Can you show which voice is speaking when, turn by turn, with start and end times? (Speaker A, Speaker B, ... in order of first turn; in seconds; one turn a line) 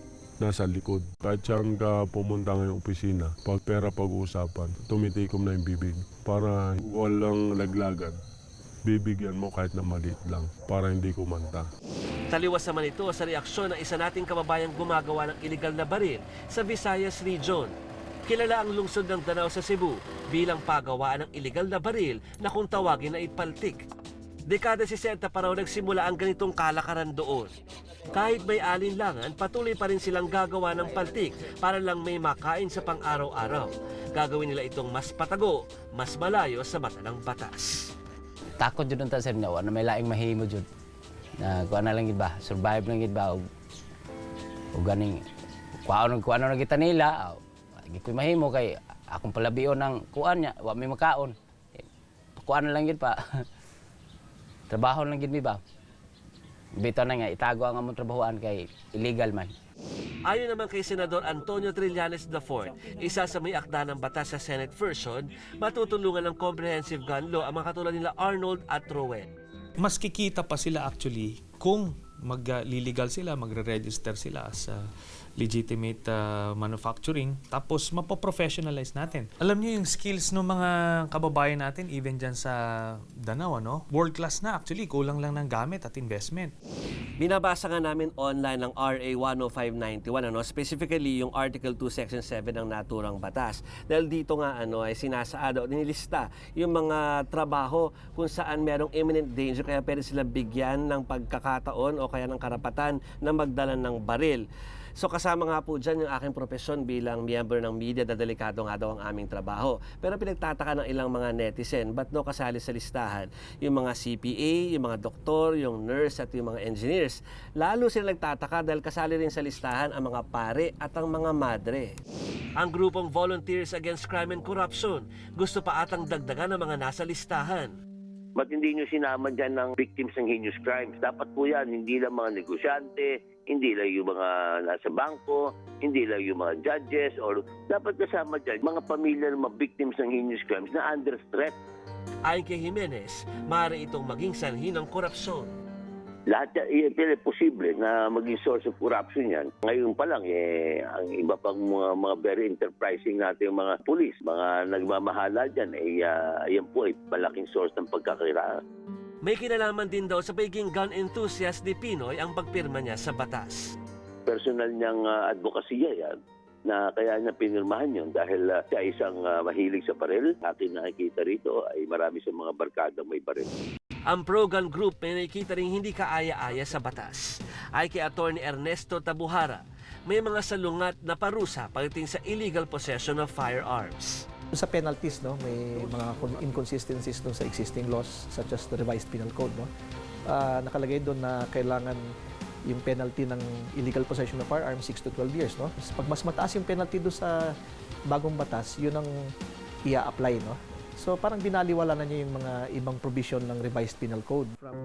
Speaker A: 0.4-8.2
Speaker A: 8.8-11.7
Speaker B: 12.3-17.7
Speaker B: 18.2-23.8
Speaker B: 24.5-27.5
Speaker B: 28.1-37.9
Speaker C: 38.6-40.6
Speaker C: 41.4-43.4
Speaker C: 44.7-45.2
Speaker C: 45.9-51.3
Speaker C: 52.4-53.4
Speaker C: 54.7-55.6
Speaker C: 56.8-59.5
Speaker B: 60.3-69.3
Speaker D: 69.8-86.5
Speaker B: 87.2-104.4
Speaker B: 105.0-122.0
Speaker B: 122.6-127.7
Speaker E: 128.3-141.6
Speaker B: 142.3-145.5
Speaker E: 146.3-158.6
Speaker B: 159.2-163.7
Speaker E: 164.3-173.5
Speaker B: 174.1-184.2
Speaker F: 184.5-189.7
Speaker F: 190.3-192.0
Speaker F: 192.7-197.4
Speaker F: 198.1-199.1
Speaker F: 199.8-204.5